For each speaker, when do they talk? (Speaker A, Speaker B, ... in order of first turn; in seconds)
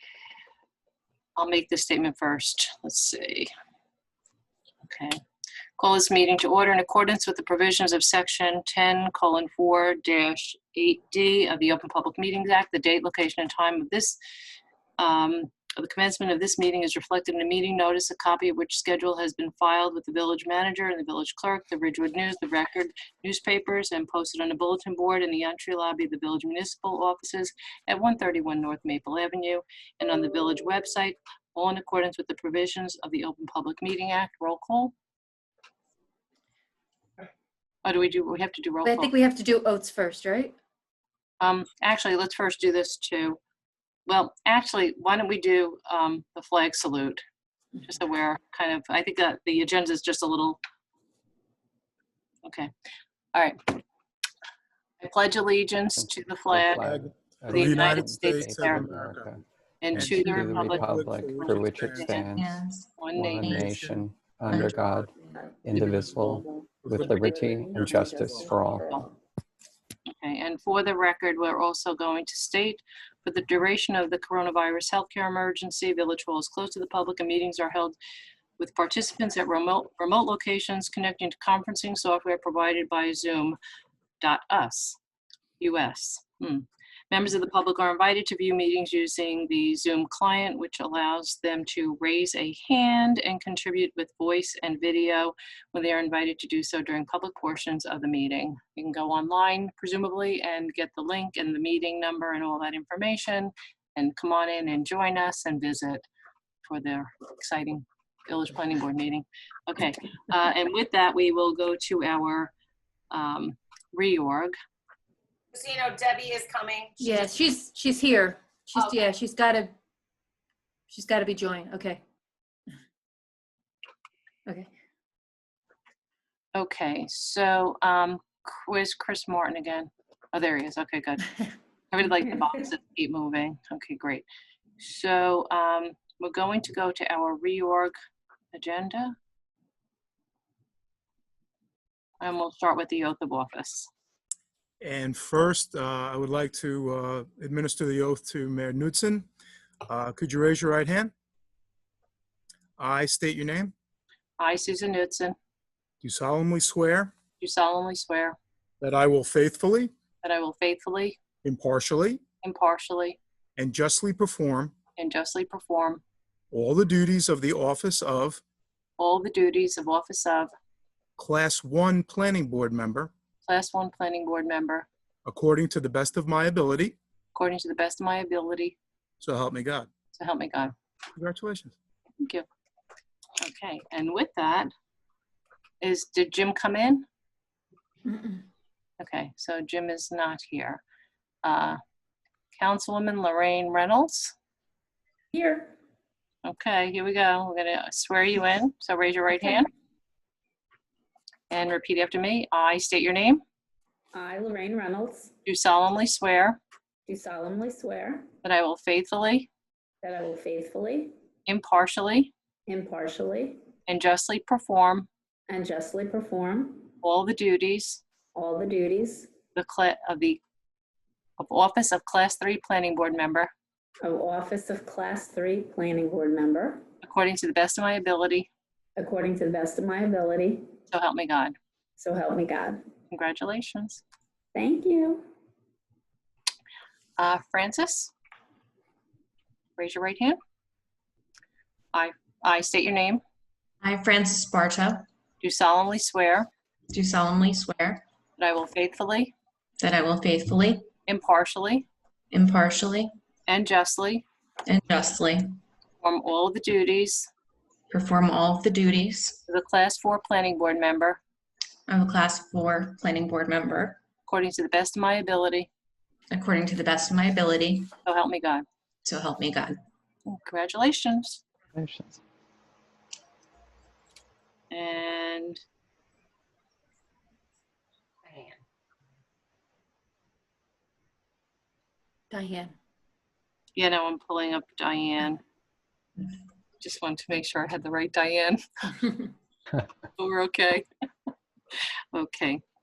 Speaker A: 1.4-3.5, 4.8-5.2, 5.8-14.2, 15.0-34.9, 37.8-39.1, 41.4-43.4, 44.0-47.2, 47.8-50.6, 52.4-52.7, 53.3-53.8, 55.0-56.8, 57.5-58.9, 59.8-62.4, 63.0-63.4, 68.6-69.1, 70.1-78.0, 78.6-83.6, 84.2-85.0, 85.6-106.0, 106.6-112.5, 113.1-114.5, 126.5-131.3, 131.9-134.2, 134.8-137.9, 138.5-139.1, 142.2-143.9, 154.4-155.3, 157.4-158.4, 160.2-161.2, 162.4-163.2, 165.0-166.0, 169.0-170.5, 173.4-174.9, 177.3-178.8, 180.1-180.7, 182.2-182.4, 183.4-184.7, 185.8-187.0, 189.0-190.8, 191.4-191.8, 192.5-194.3, 196.4-199.7, 201.5-203.4, 205.4-206.6, 208.4-209.5, 211.5-212.3, 213.9-215.1, 217.0-218.0, 219.6-220.4, 221.4-223.5, 227.0-228.5, 230.9-231.5, 233.1-234.0, 237.2-238.1, 239.8-240.4, 241.9-243.2, 245.4-246.5, 248.4-249.3, 251.1-251.9, 253.5-254.2, 256.0-257.3, 259.5-261.2, 264.3-265.7, 268.0-268.6, 270.2-271.4, 274.7-275.6, 283.8-285.4, 286.8-288.6, 290.2-290.9, 292.1-292.6
Speaker B: 38.8-40.5, 117.0-119.7, 120.9-122.0, 188.1-188.4, 282.3-282.7
Speaker C: 56.0-65.1, 65.6-69.0, 271.7-272.2
Speaker D: 56.8-59.3, 59.9-62.1, 63.4-64.0, 66.8-67.2, 67.7-68.5, 144.8-149.3, 149.8-151.1, 152.8-153.7, 156.0-157.1, 158.8-159.9, 161.4-162.2, 163.6-164.7, 166.5-168.4, 171.2-173.1, 175.2-177.0, 179.2-179.9, 181.2-181.7
Speaker E: 62.3-63.7, 64.5-64.7, 243.8-245.1, 246.9-248.0, 249.8-250.9, 252.3-253.1, 254.7-255.6, 257.9-259.4, 261.9-264.0, 266.3-267.9, 269.0-269.8
Speaker F: 65.1-69.1, 195.3-195.7, 204.1-205.3, 207.1-208.3, 210.0-211.1, 212.7-213.6, 215.5-216.9, 218.3-219.3, 224.0-226.8, 229.0-230.7, 232.0-232.8, 234.5-235.2
Speaker G: 115.5-117.2, 118.8-119.0, 278.3-278.6